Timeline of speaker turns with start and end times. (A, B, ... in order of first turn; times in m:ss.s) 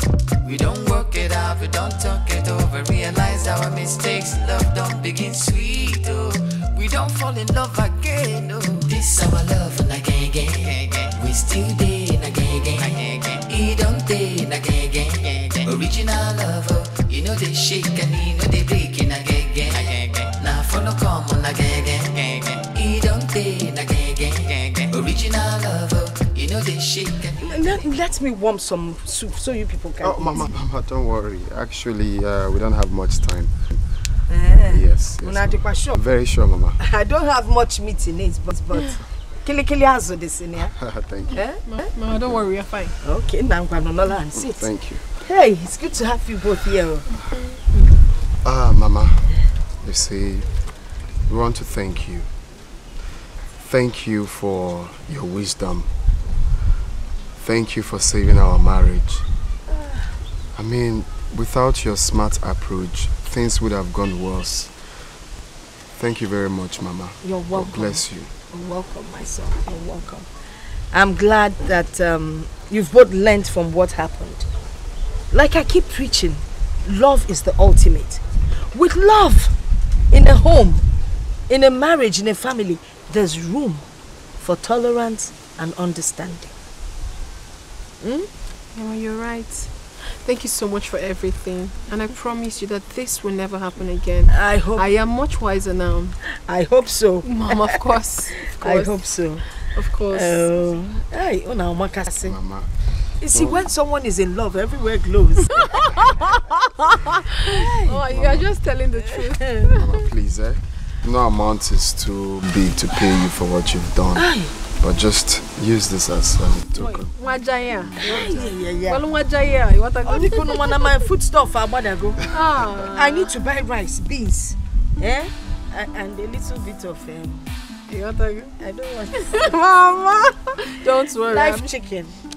0:00.4-0:27.5 A
0:27.4-0:30.5 B
0:30.0-0:33.5 C
0:34.3-0:36.0 B
0:34.6-0:36.8 C
0:36.8-0:40.7 B
0:40.6-0:41.4 C
0:41.4-0:41.8 B
0:41.6-0:43.0 D
0:43.0-0:44.7 B
0:44.4-0:45.0 C
0:45.2-0:47.1 B
0:48.4-0:50.5 C
0:51.3-0:52.3 C
0:53.6-0:55.9 C
0:57.4-0:59.2 C
0:59.7-1:00.0 B
1:00.6-1:04.7 C
1:06.0-1:08.3 C
1:07.2-1:10.3 B
1:10.9-1:14.5 B
1:15.3-1:18.2 B
1:18.7-1:19.5 B
1:20.1-1:20.8 B
1:21.5-1:23.8 B
1:24.4-1:26.5 B
1:28.0-1:36.2 D
1:34.3-1:34.9 B
1:36.5-1:37.7 B
1:37.2-1:40.5 D
1:38.4-1:39.5 B
1:40.1-1:42.4 B
1:42.2-1:42.7 C
1:43.2-1:45.7 B
1:43.3-1:43.6 C
1:47.3-1:49.8 D
1:47.5-1:48.0 B
1:48.0-1:48.4 C
1:49.7-1:57.1 C
1:54.1-1:54.5 B
1:56.8-2:01.0 D
1:57.8-1:58.4 C
1:58.0-1:59.0 B
2:00.0-2:02.2 B
2:02.3-2:03.3 D
2:02.9-2:07.5 B
2:07.9-2:08.6 D
2:08.6-2:09.5 B
2:09.1-2:11.7 D
2:11.3-2:12.1 B